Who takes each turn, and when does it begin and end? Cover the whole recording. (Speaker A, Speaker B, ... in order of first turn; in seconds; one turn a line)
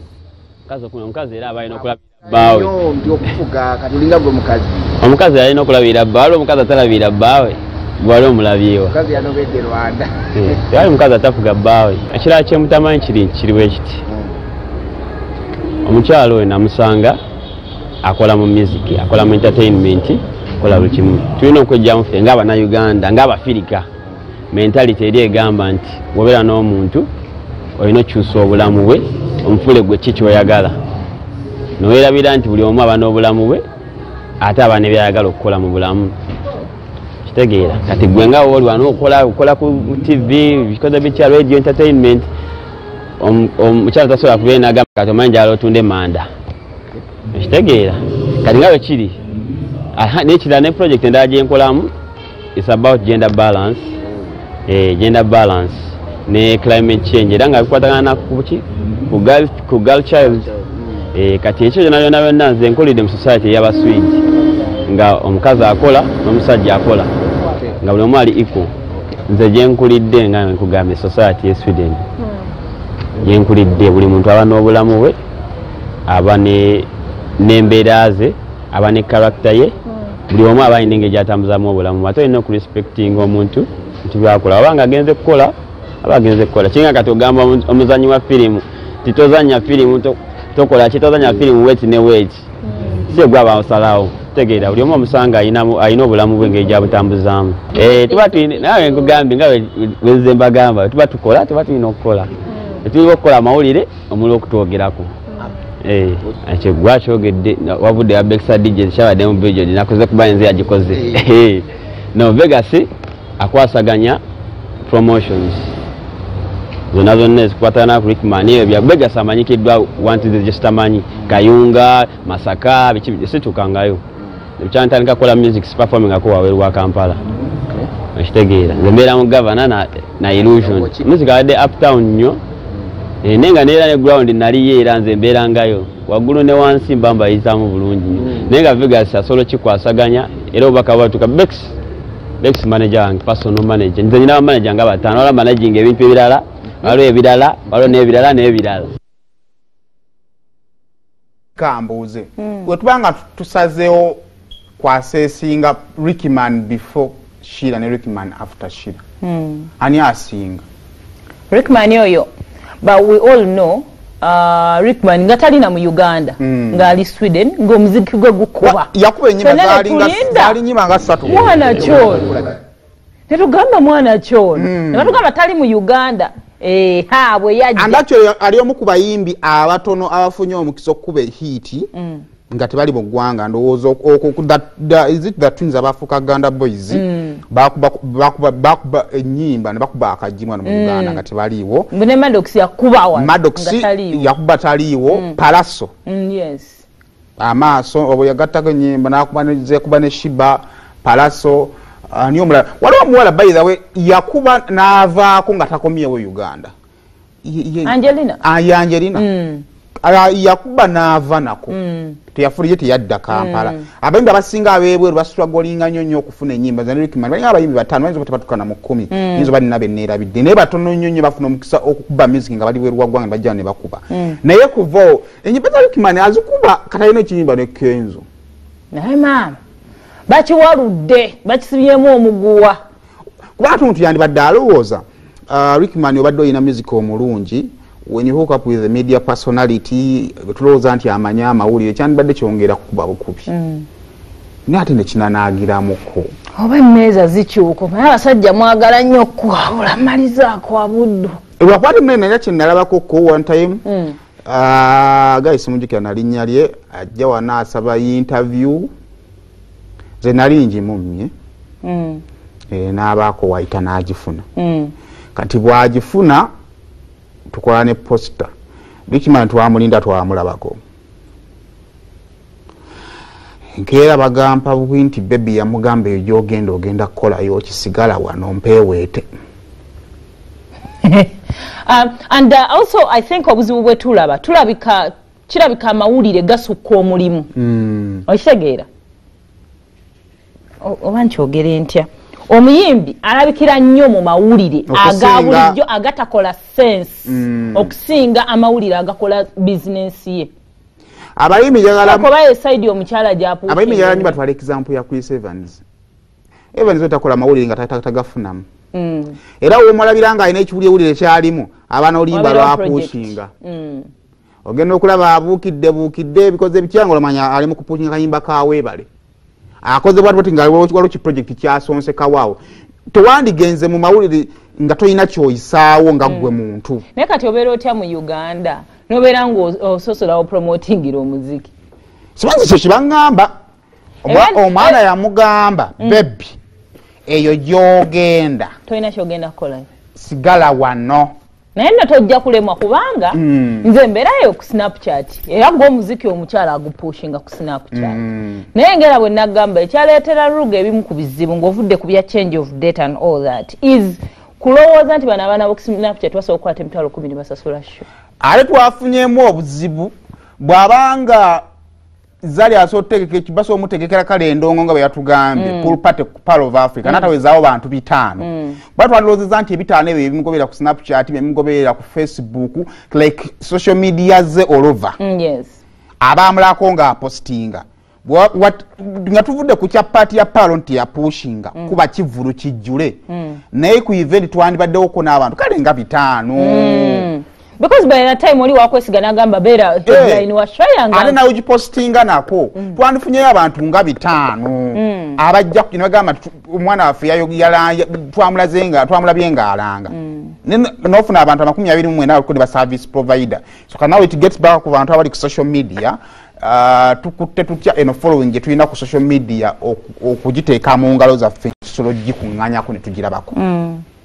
Speaker A: 0.7-2.7
Speaker B: 2.3-4.9
Speaker A: 5.0-8.9
Speaker B: 8.9-10.6
Speaker A: 10.3-14.0
Speaker A: 15.8-17.2
Speaker A: 18.0-23.9
Speaker A: 24.5-27.1
Speaker A: 27.8-30.8
Speaker A: 31.8-33.6
Speaker A: 34.4-36.1
Speaker A: 37.2-42.3
Speaker A: 43.2-46.3
Speaker A: 47.3-49.2
Speaker A: 50.0-51.9
Speaker A: 52.5-53.9
Speaker B: 54.0-54.3
Speaker A: 54.7-60.5
Speaker B: 60.6-60.9
Speaker A: 61.1-64.2
Speaker A: 64.9-67.1
Speaker B: 67.5-67.7
Speaker A: 67.8-68.7
Speaker A: 69.3-72.0
Speaker A: 73.2-75.2
Speaker A: 76.1-76.9
Speaker A: 77.4-79.7
Speaker A: 80.3-105.1
Speaker C: 97.8-99.1
Speaker A: 105.8-112.9
Speaker A: 113.4-114.2
Speaker A: 114.8-115.7
Speaker A: 116.9-124.0
Speaker A: 124.6-127.2
Speaker A: 128.1-132.4
Speaker B: 130.5-131.0
Speaker A: 133.2-141.7
Speaker A: 142.4-148.9
Speaker D: 151.6-154.2
Speaker D: 154.8-159.0
Speaker C: 159.2-159.7
Speaker D: 159.8-160.6
Speaker C: 161.5-162.3
Speaker C: 162.8-168.9
Speaker D: 166.4-167.0
Speaker D: 168.6-172.6
Speaker C: 169.4-170.6
Speaker C: 171.2-172.3
Speaker C: 173.3-178.0
Speaker D: 174.5-175.2
Speaker D: 177.7-181.9
Speaker C: 181.9-182.2
Speaker D: 182.5-191.9
Speaker C: 186.9-187.4
Speaker C: 190.6-191.2
Speaker C: 191.9-194.3
Speaker D: 193.1-195.9
Speaker C: 195.1-195.3
Speaker C: 196.1-196.8
Speaker D: 197.4-206.7
Speaker D: 207.4-209.2
Speaker C: 207.8-208.4
Speaker C: 209.1-209.6
Speaker D: 210.0-211.8
Speaker C: 211.7-212.2
Speaker D: 212.3-228.2
Speaker C: 213.3-213.8
Speaker C: 219.1-219.5
Speaker C: 224.1-224.4
Speaker C: 228.9-229.6
Speaker C: 230.3-232.8
Speaker D: 233.6-243.4
Speaker C: 243.5-243.8
Speaker D: 244.7-246.3
Speaker C: 246.6-251.4
Speaker D: 251.6-253.8
Speaker C: 253.8-254.2
Speaker D: 254.4-258.9
Speaker D: 260.2-261.3
Speaker C: 261.8-262.2
Speaker D: 262.7-264.4
Speaker C: 264.6-264.9
Speaker D: 265.3-266.5
Speaker D: 267.5-268.5
Speaker D: 269.1-270.8
Speaker D: 273.8-279.2
Speaker C: 281.0-281.3
Speaker C: 281.9-287.5
Speaker D: 287.5-288.2
Speaker C: 288.2-288.9
Speaker C: 290.8-300.5
Speaker D: 294.9-295.8
Speaker D: 297.2-297.9
Speaker D: 301.4-302.3
Speaker C: 302.0-304.4
Speaker D: 303.7-305.8
Speaker D: 306.7-308.6
Speaker C: 308.9-309.4
Speaker D: 309.6-313.5
Speaker C: 312.3-314.1
Speaker D: 314.6-319.1
Speaker D: 319.8-322.6
Speaker D: 323.1-327.0
Speaker C: 327.1-331.7
Speaker D: 332.4-333.5
Speaker D: 334.2-336.6
Speaker C: 334.2-335.0
Speaker C: 336.0-336.2
Speaker D: 337.3-338.7
Speaker C: 338.9-339.9
Speaker D: 340.1-341.3
Speaker C: 341.7-348.2
Speaker D: 343.3-343.9
Speaker D: 347.9-348.6
Speaker C: 348.7-358.0
Speaker D: 358.4-361.6
Speaker D: 362.4-375.2
Speaker C: 365.6-365.9
Speaker C: 367.0-367.3
Speaker C: 368.4-368.8
Speaker C: 375.2-375.8
Speaker D: 376.2-383.2
Speaker C: 383.3-383.6
Speaker D: 383.7-387.3
Speaker C: 386.6-391.4
Speaker D: 390.1-390.4
Speaker D: 391.1-413.6
Speaker C: 394.9-395.4
Speaker C: 400.1-400.5
Speaker C: 413.5-414.0